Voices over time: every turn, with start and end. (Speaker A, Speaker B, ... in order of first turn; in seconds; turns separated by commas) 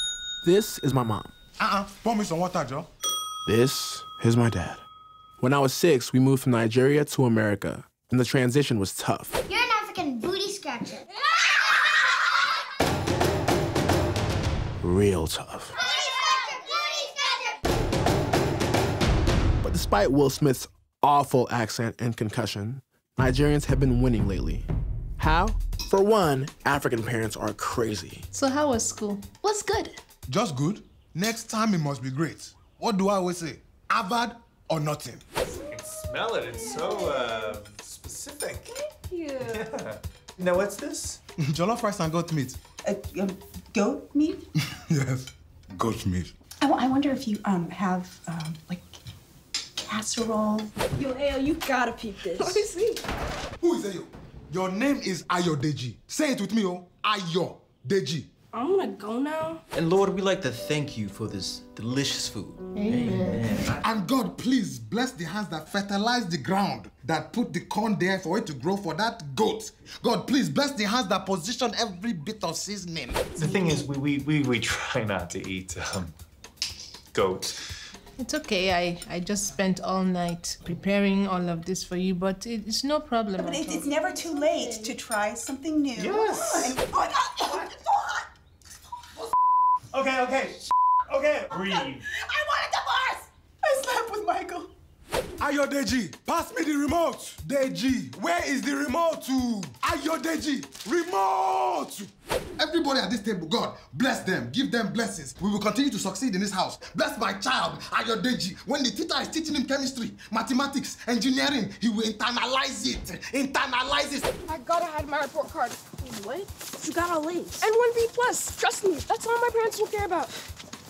Speaker A: 0.4-1.3, Speaker B: 1.6-2.9, Speaker A: 3.5-4.8, Speaker A: 5.4-9.4, Speaker C: 9.5-11.1, Speaker A: 14.8-15.8, Speaker C: 15.9-17.5, Speaker A: 19.6-24.6, Speaker A: 25.2-28.2, Speaker D: 28.3-30.0, Speaker B: 30.3-35.2, Speaker E: 35.5-38.7, Speaker D: 39.1-39.5, Speaker E: 39.5-41.2, Speaker B: 41.4-42.6, Speaker F: 42.8-44.4, Speaker B: 44.6-46.3, Speaker F: 46.6-49.0, Speaker F: 49.8-53.0, Speaker G: 52.0-52.6, Speaker B: 53.6-58.3, Speaker G: 58.5-59.6, Speaker H: 59.7-63.8, Speaker D: 62.7-63.6, Speaker B: 63.8-73.2, Speaker E: 73.4-76.2, Speaker E: 77.1-77.6, Speaker D: 78.2-85.0, Speaker F: 83.4-88.3, Speaker E: 86.0-86.8, Speaker E: 89.9-92.0, Speaker F: 91.5-94.7, Speaker B: 95.4-114.3, Speaker G: 114.5-120.3